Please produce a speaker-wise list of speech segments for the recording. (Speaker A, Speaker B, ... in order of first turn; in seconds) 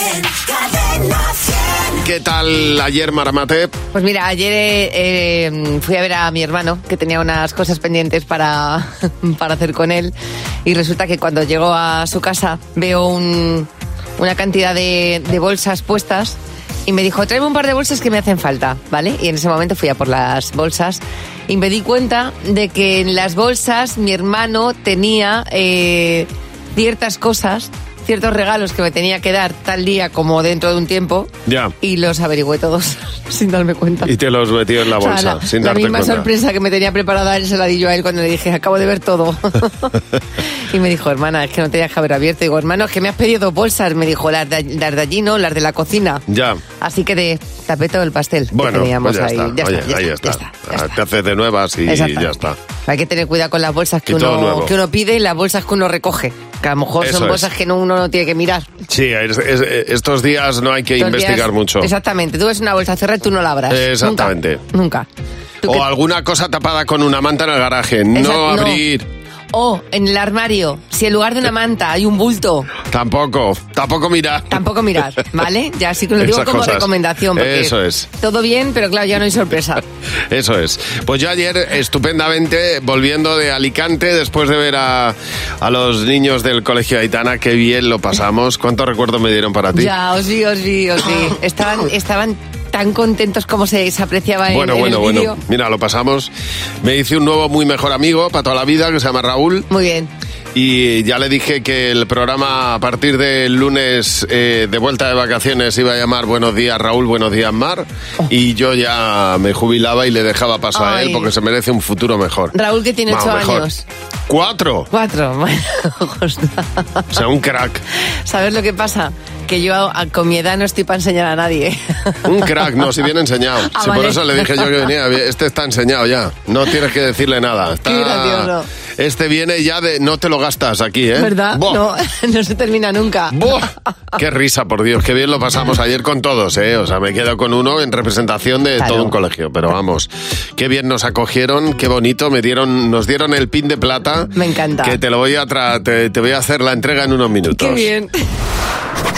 Speaker A: 2.0-3.7, 31.5-31.7, 34.0-36.3, 46.3-46.6, 48.5-52.6, 54.1-54.7, 57.0-57.5, 58.9-61.9, 63.7-64.6, 65.6-69.1, 72.9-74.7, 76.2-78.1, 80.3-89.9, 94.5-96.3, 96.8-99.7, 100.5-112.5, 113.1-113.7, 114.3-114.9, 117.1-117.8, 122.3-131.8, 133.3-147.9
Speaker B: 3.9-10.1, 10.7-31.3, 31.8-34.1, 35.0-46.2, 46.8-50.9, 51.9-58.7, 61.0-65.1, 68.2-68.8, 69.5-72.7, 74.5-79.8, 89.8-95.4, 99.7-100.1, 110.8-111.3, 112.5-113.8, 114.9-117.0, 118.3-122.2, 123.7-124.7, 127.9-128.7, 131.2-133.4, 138.8-139.1, 144.3-145.0, 147.6-148.2